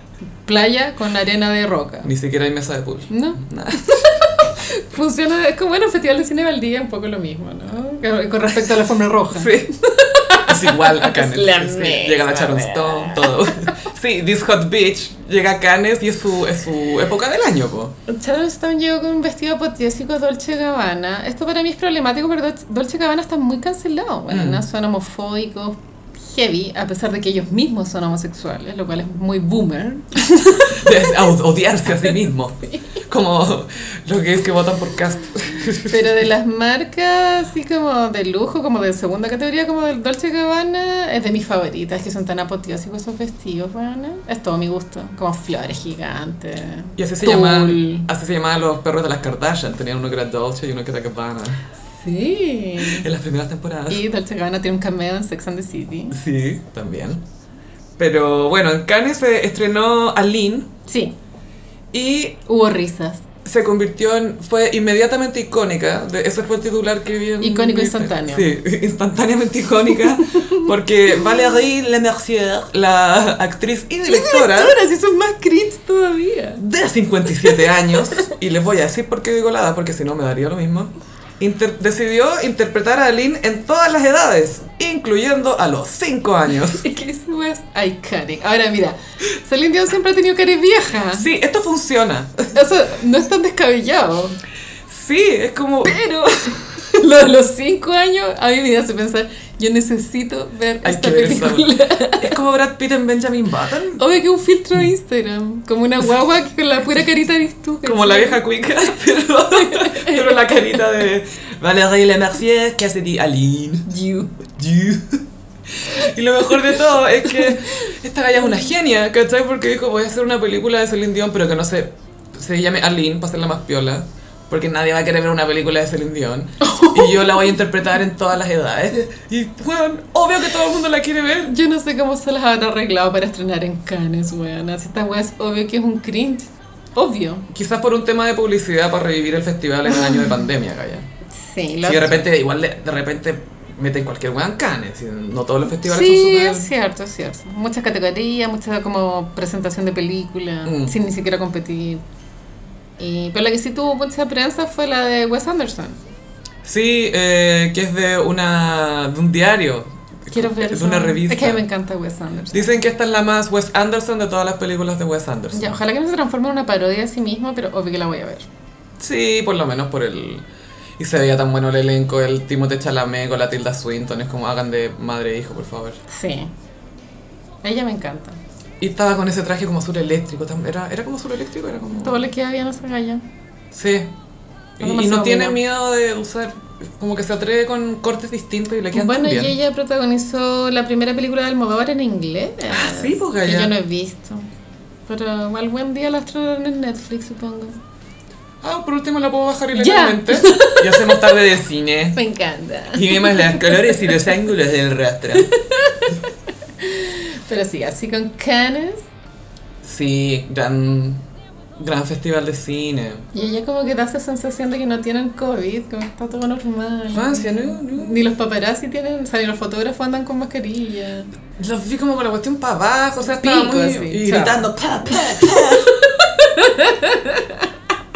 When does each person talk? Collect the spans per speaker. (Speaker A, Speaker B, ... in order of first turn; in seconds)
Speaker A: 0.5-2.1, 3.1-13.8, 18.1-31.2, 35.9-48.1, 51.9-53.1, 53.9-56.2, 60.9-61.1, 62.5-63.2, 67.4-68.5, 70.1-70.7, 74.0-76.6, 77.5-78.3, 86.7-91.3, 92.5-94.4, 95.8-102.3, 104.0-108.4, 109.5-110.4, 113.9-114.3, 117.4-117.9, 126.6-127.5, 131.5-137.5, 139.9-140.3, 141.3-142.2, 145.7-152.0, 153.0-156.0, 160.3-162.8, 165.5-168.5, 176.1-176.5, 177.6-178.4, 182.0-183.2, 184.8-185.6, 188.9-194.5, 195.1-197.8, 199.8-201.2, 202.2-204.1, 205.4-206.3, 206.8-209.1, 213.3-221.3, 223.3-227.7
Speaker B: 2.0-4.0, 9.3-9.7, 10.4-17.9, 24.3-24.6, 30.7-36.2, 47.0-51.6, 52.8-54.0, 56.1-57.2, 58.0-60.7, 61.9-62.4, 63.4-74.8, 76.6-86.8, 91.2-92.5, 94.9-96.0, 100.8-104.0, 107.8-113.9, 114.5-115.2, 115.8-131.5, 137.5-141.1, 141.8-146.7, 150.7-150.9, 156.6-161.6, 162.5-165.8, 169.0-170.4, 171.0-176.0, 178.8-182.2, 183.7-184.1, 184.8-189.5, 192.7-193.7, 198.6-202.2, 202.9-205.5, 209.8-211.2, 211.8-213.3, 217.1-218.2, 221.6-226.1